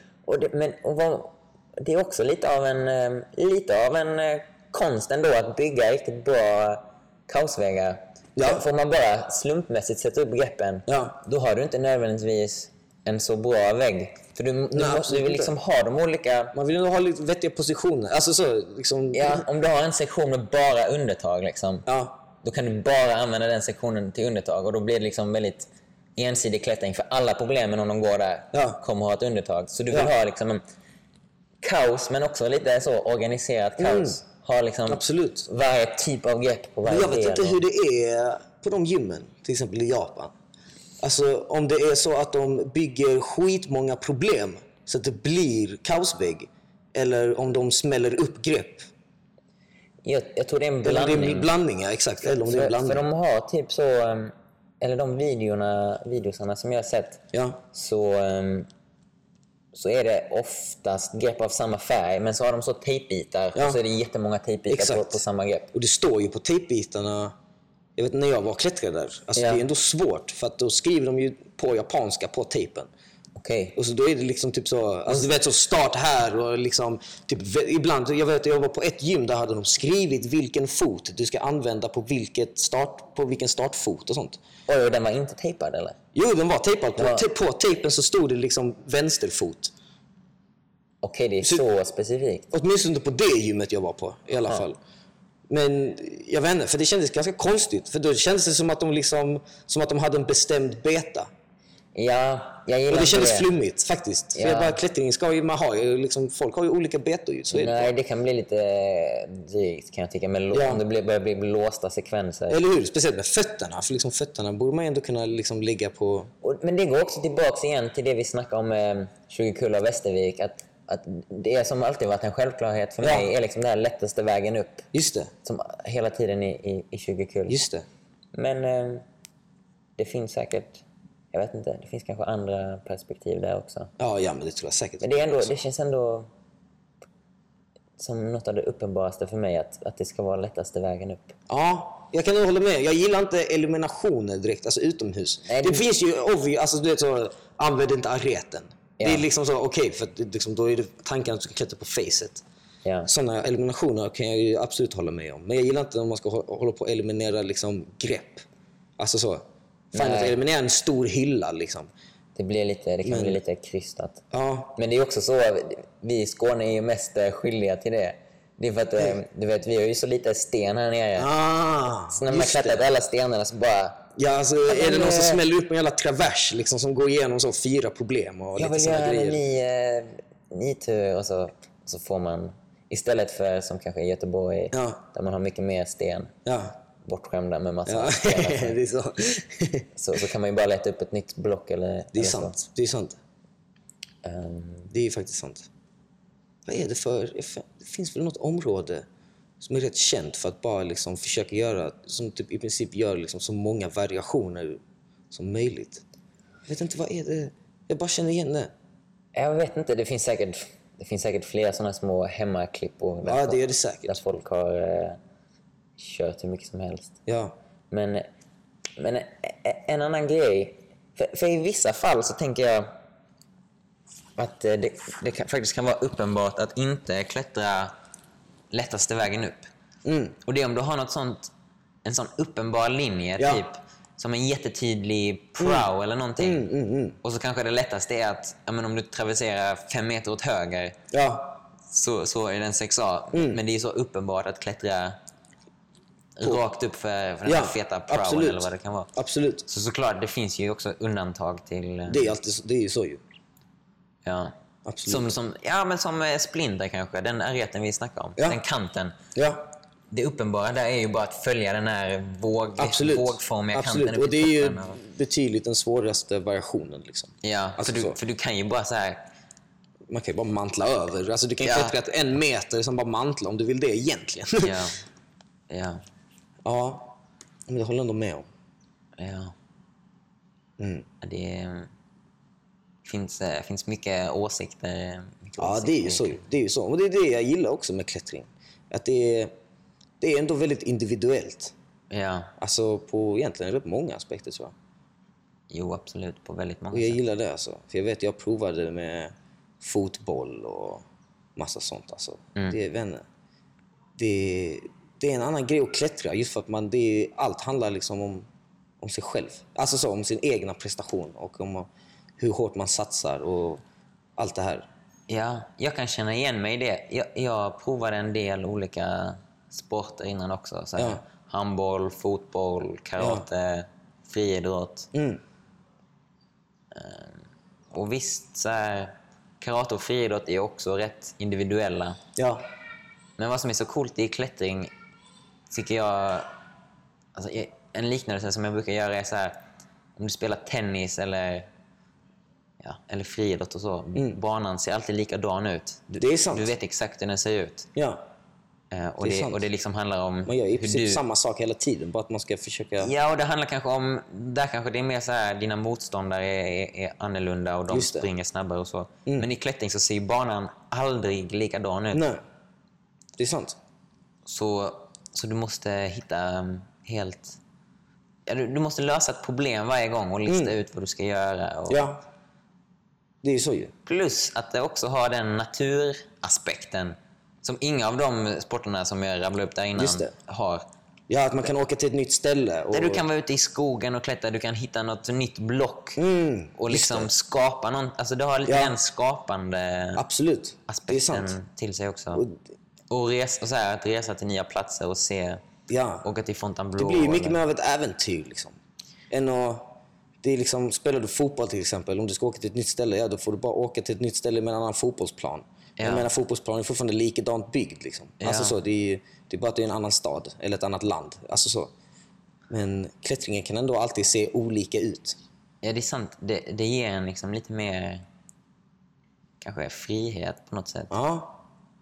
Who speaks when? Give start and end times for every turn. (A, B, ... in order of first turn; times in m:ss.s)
0:00.2-0:16.5 A
0:08.4-0:08.6 B
0:10.9-0:11.2 B
0:14.7-0:15.5 B
0:16.5-0:19.4 B
0:19.1-0:21.9 A
0:21.8-0:22.2 B
0:22.4-0:30.6 A
0:28.5-0:28.8 B
0:31.6-0:37.6 A
0:33.8-0:34.2 B
0:34.9-0:35.4 B
0:36.8-0:40.3 B
0:41.0-0:48.9 B
0:50.0-0:51.5 A
0:50.8-0:53.0 B
0:52.2-0:58.7 A
0:57.3-0:57.6 B
0:59.7-1:05.7 A
1:03.5-1:03.8 B
1:04.7-1:05.1 B
1:05.7-1:07.3 B
1:08.0-1:12.9 B
1:09.3-1:09.6 A
1:13.4-1:13.8 A
1:13.7-1:24.4 B
1:24.7-1:26.0 A
1:26.1-1:29.7 B
1:27.0-1:27.2 A
1:31.0-1:32.5 A
1:32.5-1:34.8 B
1:35.5-1:41.3 B
1:41.9-1:43.5 A
1:42.9-1:47.9 B
1:44.3-1:44.8 A
1:47.5-1:52.6 A
1:50.5-1:50.8 B
1:52.5-1:56.3 B
1:56.4-2:04.9 A
2:03.0-2:03.3 B
2:04.9-2:05.3 B
2:05.4-2:07.6 A
2:07.5-2:07.8 B
2:08.3-2:09.0 A
2:10.0-2:13.9 A
2:14.0-2:15.4 B
2:15.0-2:16.3 A
2:18.0-2:21.3 A
2:21.5-2:32.4 B
2:25.4-2:25.8 A
2:29.0-2:29.2 A
2:32.8-2:33.1 A
2:33.0-2:38.4 B
2:39.0-2:41.9 B
2:39.9-2:40.4 A
2:42.3-2:44.2 A
2:43.0-2:43.4 B
2:44.3-2:44.8 B
2:44.8-2:51.3 A
2:51.2-2:52.8 B
2:52.1-2:54.0 A
2:54.2-2:59.4 B
2:54.7-2:55.4 A
2:58.6-3:06.3 A
3:04.7-3:05.0 B
3:06.4-3:06.8 B
3:07.0-3:08.8 A
3:07.8-3:09.8 B
3:09.9-3:12.6 A
3:12.1-3:13.2 B
3:14.2-3:14.9 A
3:14.9-3:15.7 B
3:16.7-3:19.0 B
3:19.6-3:24.8 B
3:25.3-3:26.0 B
3:26.7-3:28.7 B
3:29.3-3:35.2 A
3:33.2-3:34.2 B
3:36.0-3:37.2 A
3:37.3-3:37.5 B
3:37.9-3:38.3 A
3:39.0-3:42.9 A
3:44.4-3:47.9 A
3:48.7-3:49.7 A
3:50.0-3:50.4 B
3:50.4-3:51.5 A
3:52.0-3:56.7 A
3:53.4-3:53.6 B
3:55.6-3:55.9 B
3:56.4-3:57.2 B
3:57.2-4:01.0 A
4:01.1-4:01.6 B
4:01.9-4:05.2 A
4:03.3-4:03.6 B
4:06.4-4:09.1 A
4:07.4-4:09.7 B
4:09.7-4:12.4 A
4:12.1-4:13.2 B
4:14.2-4:14.5 A
4:14.8-4:15.3 B
4:15.0-4:19.2 A
4:19.3-4:19.7 B
4:20.1-4:25.0 A
4:22.8-4:28.2 B
4:27.4-4:29.2 A
4:30.1-4:34.8 B
4:31.6-4:31.9 A
4:34.6-4:35.0 A
4:35.7-4:36.0 A
4:36.6-4:37.1 B
4:37.7-4:38.5 B
4:39.2-4:39.5 A
4:40.8-4:41.0 B
4:41.2-4:41.9 A
4:43.0-4:46.4 A
4:45.6-4:49.5 B
4:50.2-4:51.7 B
4:52.1-4:52.5 A
4:52.6-4:54.7 B
4:55.7-4:57.2 A
4:56.9-5:01.0 B
5:01.6-5:03.2 B
5:04.2-5:08.4 B
5:09.0-5:11.9 B
5:12.4-5:13.8 B
5:14.4-5:14.9 B
5:15.3-5:25.1 A
5:21.0-5:21.2 B
5:23.2-5:23.4 B
5:25.1-5:25.4 B
5:26.9-5:32.2 A
5:32.4-5:32.6 B
5:33.4-5:34.9 A
5:35.7-5:36.5 A
5:37.3-5:39.6 A
5:40.2-5:41.7 A
5:42.8-5:47.9 A
5:46.1-5:46.7 B
5:47.9-5:48.2 B
5:48.9-5:51.2 A
5:49.2-5:49.6 B
5:50.5-5:53.1 B
5:53.0-6:02.2 A
5:57.9-5:58.3 B
6:02.1-6:02.4 B
6:03.4-6:03.8 B
6:04.4-6:07.6 A
6:08.4-6:12.0 A
6:10.5-6:10.8 B
6:11.9-6:12.2 B
6:13.4-6:13.9 B
6:14.0-6:20.8 A
6:20.0-6:20.3 B
6:21.3-6:23.2 B
6:22.9-6:26.2 A
6:26.2-6:27.3 B
6:26.8-6:30.2 A
6:28.7-6:29.0 B
6:30.2-6:31.6 B
6:30.9-6:32.4 A
6:33.1-6:35.6 A
6:35.9-6:36.2 B
6:36.2-6:37.6 A
6:37.0-6:38.8 B
6:39.3-6:39.9 B
6:40.4-6:51.9 B
6:46.0-6:46.3 A
6:48.4-6:48.8 A
6:52.7-6:55.4 B
6:55.8-6:58.2 A
6:59.6-7:01.1 A
7:01.1-7:01.6 B